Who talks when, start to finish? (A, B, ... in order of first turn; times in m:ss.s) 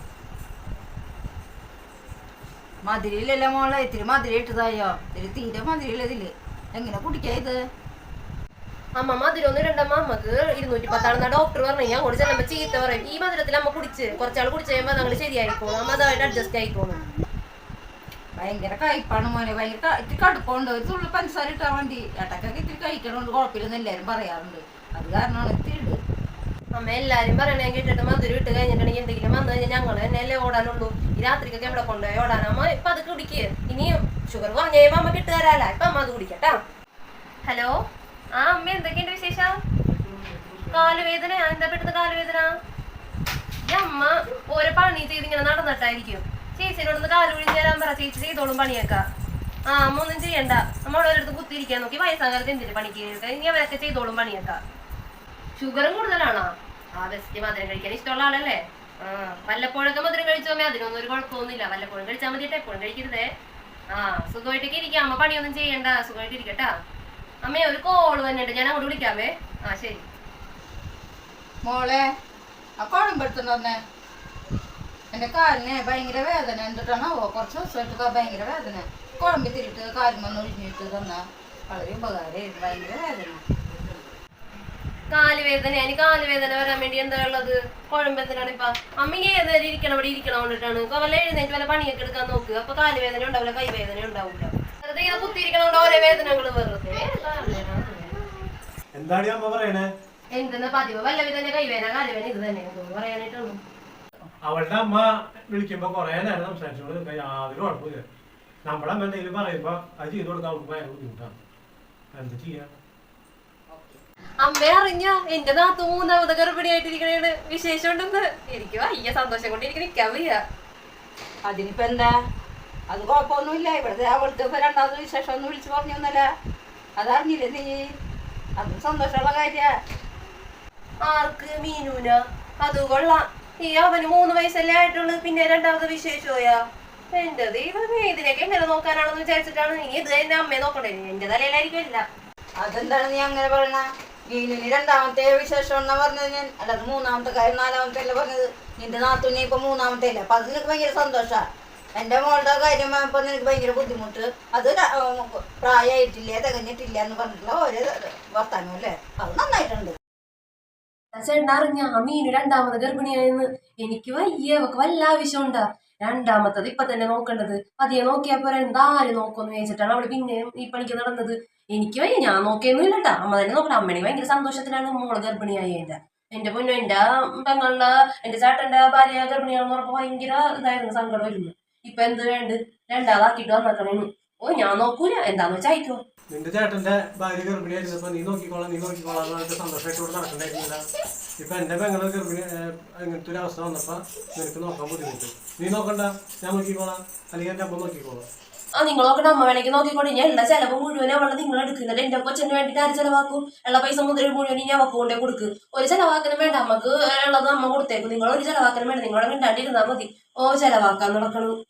0:02.9-0:07.6 A
0:09.0-0:17.0 B
0:18.4-0:26.0 A
0:26.8-0:36.6 B
0:37.4-0:37.8 B
0:38.4-0:39.6 B
0:40.1-0:40.7 C
0:40.7-0:42.5 B
0:43.6-0:49.0 B
0:49.7-0:54.6 B
0:55.6-1:03.3 B
1:03.9-1:06.7 B
1:07.4-1:10.0 B
1:11.6-1:12.1 A
1:12.8-1:13.8 A
1:15.1-1:23.4 A
1:25.1-1:38.4 B
1:39.0-1:39.9 C
1:40.4-1:43.6 B
1:44.5-1:48.0 C
1:48.7-1:51.4 C
1:52.2-1:52.7 C
1:53.7-1:54.0 A
1:54.4-2:00.4 B
2:01.5-2:02.1 A
2:02.9-2:06.3 A
2:07.0-2:07.8 A
2:08.6-2:09.7 A
2:11.0-2:16.6 B
2:17.1-2:22.0 B
2:22.6-2:31.4 A
2:32.0-2:40.0 A
2:41.1-3:06.0 B
3:06.3-3:10.8 C
3:11.4-3:18.2 C
3:18.8-3:31.6 B